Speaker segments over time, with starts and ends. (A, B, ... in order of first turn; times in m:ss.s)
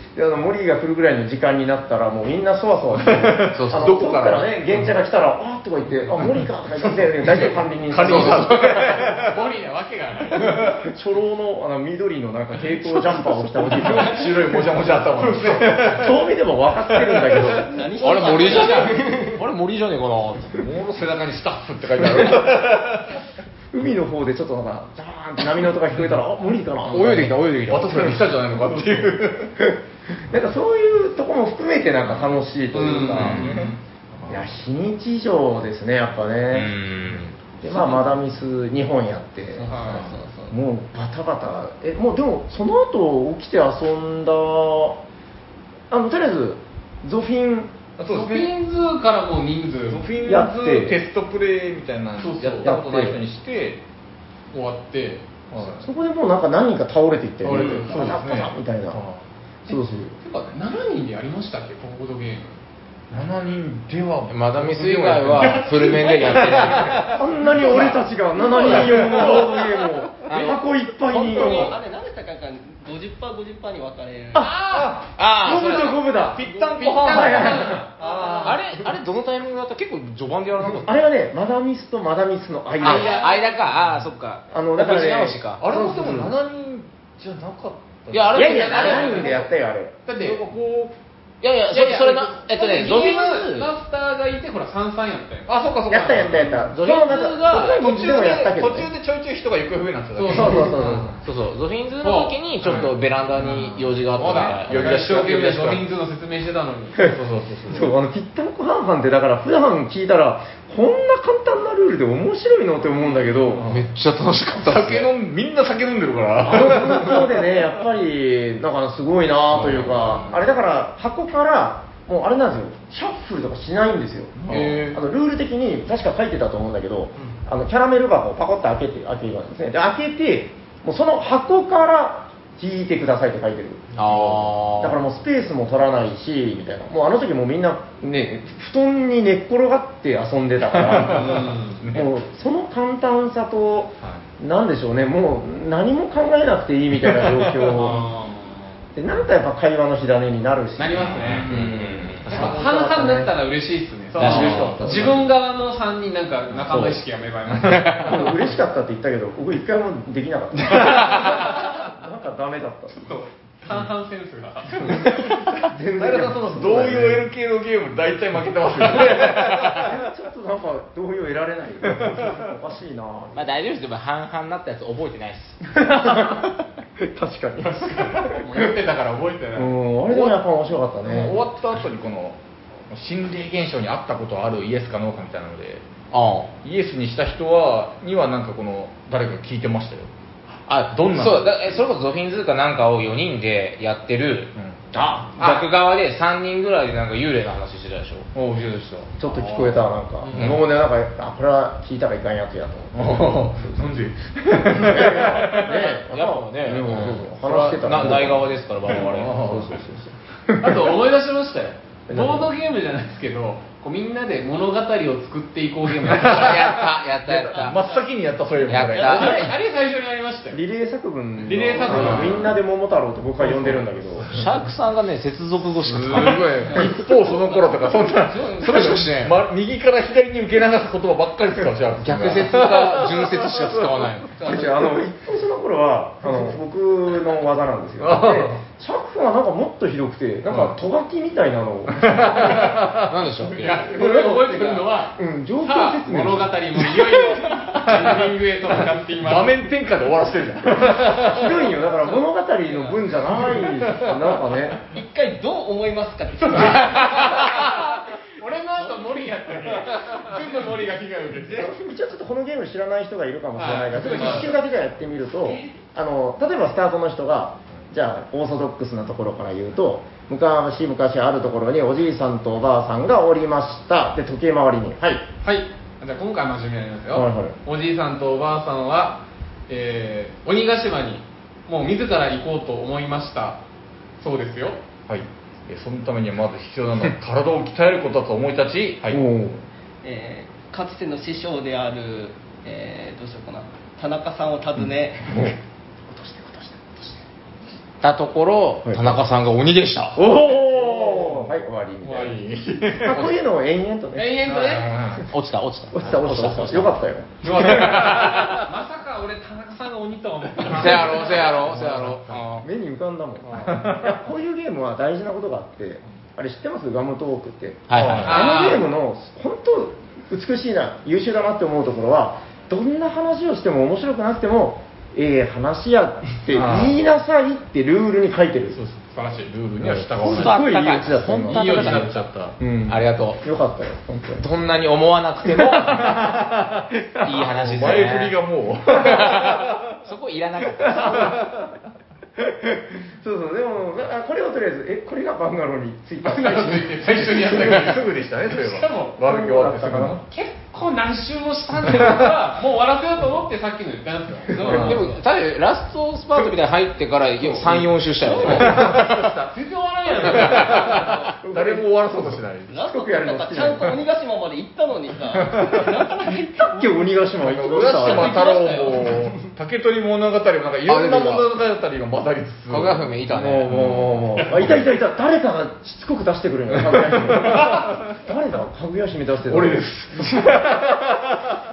0:00.1-0:08.9 A
0:03.0-0:04.9 B
0:03.5-0:04.2 C
0:06.2-0:09.4 B
0:08.0-0:09.0 C
0:09.1-0:10.7 D
0:10.4-0:10.8 B
0:10.5-0:14.3 A
0:13.0-0:16.2 B
0:15.6-0:17.7 A
0:16.9-0:17.6 B
0:17.6-0:19.4 E
0:18.0-0:20.6 C
0:18.3-0:18.9 D
0:20.5-0:23.2 B
0:23.7-0:27.4 A
0:26.9-0:28.2 C
0:27.6-0:29.5 B
0:29.6-0:33.6 A
0:32.0-0:32.4 B
0:32.7-0:33.7 D
0:33.0-0:34.5 B
0:34.3-0:36.8 A
0:36.5-0:37.3 C
0:37.6-0:39.7 A
0:37.7-0:38.1 E
0:39.5-0:40.5 E
0:39.7-0:40.1 D
0:39.9-0:40.1 B
0:40.5-0:45.0 A
0:45.9-0:47.8 A
0:48.0-0:48.5 B
0:48.0-0:50.0 D
0:49.9-0:53.8 B
0:50.2-0:51.0 A
0:52.2-0:52.7 D
0:52.6-0:53.2 A
0:54.5-0:55.2 D
0:55.5-0:55.9 B
0:55.8-0:59.0 A
0:57.4-0:59.2 B
0:57.4-0:58.1 E
0:59.6-1:00.2 A
0:59.7-1:02.6 D
1:03.1-1:08.0 B
1:04.3-1:07.2 C
1:05.6-1:06.9 D
1:07.1-1:11.8 A
1:08.5-1:09.5 B
1:08.6-1:09.8 E
1:10.3-1:10.6 C
1:11.1-1:14.5 E
1:11.1-1:11.7 C
1:14.4-1:15.0 D
1:14.7-1:15.2 B
1:15.2-1:16.1 C
1:15.4-1:16.4 A
1:16.3-1:18.6 B
1:16.7-1:17.9 D
1:17.0-1:17.9 A
1:18.0-1:18.6 E
1:18.4-1:21.0 C
1:20.8-1:23.2 A
1:22.8-1:23.6 D
1:22.8-1:25.6 C
1:24.5-1:26.3 A
1:25.6-1:28.8 B
1:28.1-1:29.4 C
1:28.3-1:30.0 A
1:28.4-1:29.4 D
1:30.0-1:30.4 D
1:30.1-1:31.0 B
1:31.4-1:33.7 C
1:31.7-1:36.6 D
1:35.5-1:36.5 B
1:35.9-1:38.9 A
1:36.6-1:37.8 C
1:37.5-1:41.2 B
1:40.2-1:41.1 D
1:40.3-1:41.1 A
1:41.2-1:45.0 C
1:42.0-1:42.9 D
1:42.6-1:45.8 B
1:44.2-1:47.0 D
1:47.0-1:47.9 B
1:47.7-1:53.7 A
1:53.5-1:53.9 B
1:53.6-1:55.1 C
1:54.5-1:57.3 B
1:56.4-2:13.9 A
1:59.5-2:00.4 B
2:04.4-2:04.9 B
2:04.5-2:04.9 C
2:14.0-2:15.0 C
2:14.0-2:14.5 B
2:14.8-2:28.0 A
2:20.8-2:22.1 B
2:21.0-2:21.8 D
2:24.0-2:24.3 B
2:27.7-2:28.7 D
2:28.9-2:33.3 A
2:30.8-2:31.5 D
2:31.0-2:32.6 B
2:31.5-2:32.3 C
2:32.3-2:38.3 D
2:34.2-2:34.9 C
2:34.2-2:35.2 B
2:34.2-2:35.2 A
2:36.5-2:36.9 B
2:37.5-2:38.2 B
2:37.7-2:38.0 C
2:38.0-2:43.1 A
2:43.0-2:45.2 D
2:44.9-2:50.0 B
2:45.6-2:47.3 A
2:49.8-2:53.5 A
2:52.1-2:52.4 B
2:53.3-2:55.8 C
2:55.7-2:58.7 A
2:57.6-2:59.7 D
2:59.5-3:01.4 A
3:00.1-3:00.4 B
3:01.0-3:02.4 B
3:02.9-3:05.8 B
3:06.1-3:06.5 C
3:06.6-3:10.1 B
3:10.7-3:14.5 C
3:10.8-3:11.8 B
3:14.9-3:15.6 A
3:15.4-3:18.3 C
3:18.3-3:19.7 B
3:19.2-3:24.0 A
3:20.3-3:20.6 C
3:20.3-3:20.6 B
3:22.9-3:25.6 B
3:24.6-3:28.5 A
3:25.5-3:29.5 C
3:26.9-3:27.2 B
3:28.9-3:29.8 B
3:29.3-3:30.8 A
3:30.6-3:36.8 D
3:32.1-3:32.5 A
3:36.0-3:39.5 B
3:36.2-3:37.8 C
3:37.6-3:38.0 E
3:38.7-3:39.5 C
3:39.0-3:40.6 D
3:39.0-3:39.3 E
3:40.5-3:44.3 A
3:41.4-3:42.4 D
3:41.8-3:42.4 B
3:42.0-3:42.3 C
3:43.4-3:44.5 B
3:44.3-3:46.9 C
3:45.8-3:54.1 B
3:46.7-3:49.0 E
3:48.6-3:49.4 C
3:52.0-3:54.3 C
3:54.4-3:54.9 E
3:54.4-4:02.7 A
3:58.0-3:58.6 B
4:00.5-4:00.8 B
4:01.9-4:03.2 B
4:03.1-4:03.9 C
4:03.5-4:09.6 D
4:03.9-4:06.6 A
4:07.8-4:08.3 B
4:08.8-4:11.6 B
4:11.2-4:14.8 A
4:14.9-4:17.9 E
4:16.5-4:21.7 D
4:21.5-4:35.3 A
4:23.6-4:24.5 D
4:35.4-4:43.6 D
4:37.1-4:37.6 A
4:44.2-4:44.8 D
4:45.1-4:49.2 B
4:49.1-4:49.6 A
4:50.0-4:55.6 E
4:56.1-4:57.2 A
4:58.0-5:00.2 C
4:58.8-4:59.2 A
5:00.1-5:04.4 A
5:02.0-5:03.3 B
5:04.1-5:05.0 D
5:04.5-5:05.3 B
5:05.3-5:08.6 C
5:05.9-5:07.7 A
5:07.4-5:11.6 D
5:10.6-5:12.6 C
5:10.7-5:12.5 B
5:12.6-5:28.8 A
5:13.6-5:14.2 B
5:17.9-5:18.5 C
5:17.9-5:18.5 B
5:18.2-5:18.8 D
5:26.5-5:27.0 B
5:28.7-5:30.8 B
5:29.1-5:29.5 D
5:29.8-5:34.5 A
5:30.2-5:32.1 C
5:31.4-5:32.6 B
5:31.6-5:32.1 D
5:32.9-5:33.4 C
5:34.4-5:36.1 C
5:35.7-5:40.0 B
5:37.2-5:38.4 C
5:38.9-5:41.3 C
5:40.9-5:41.6 A
5:41.0-5:41.7 B
5:42.4-5:46.9 A
5:46.2-5:49.2 D
5:46.9-5:50.2 B
5:49.2-5:50.2 A
5:50.2-5:55.1 D
5:51.9-5:52.2 B
5:54.5-5:55.0 E
5:54.6-5:59.2 C
5:54.6-5:55.0 B
5:57.5-5:59.6 B
5:58.3-5:58.9 D
5:59.5-6:01.1 D
6:00.2-6:02.7 B
6:00.8-6:01.3 E
6:01.4-6:01.9 A
6:02.7-6:09.5 E
6:02.8-6:04.0 A
6:05.4-6:05.9 B
6:06.4-6:08.4 A
6:07.4-6:13.2 B
6:10.8-6:11.5 C
6:12.7-6:13.8 C
6:13.3-6:20.8 A
6:13.7-6:14.9 B
6:16.9-6:17.9 B
6:19.5-6:21.6 B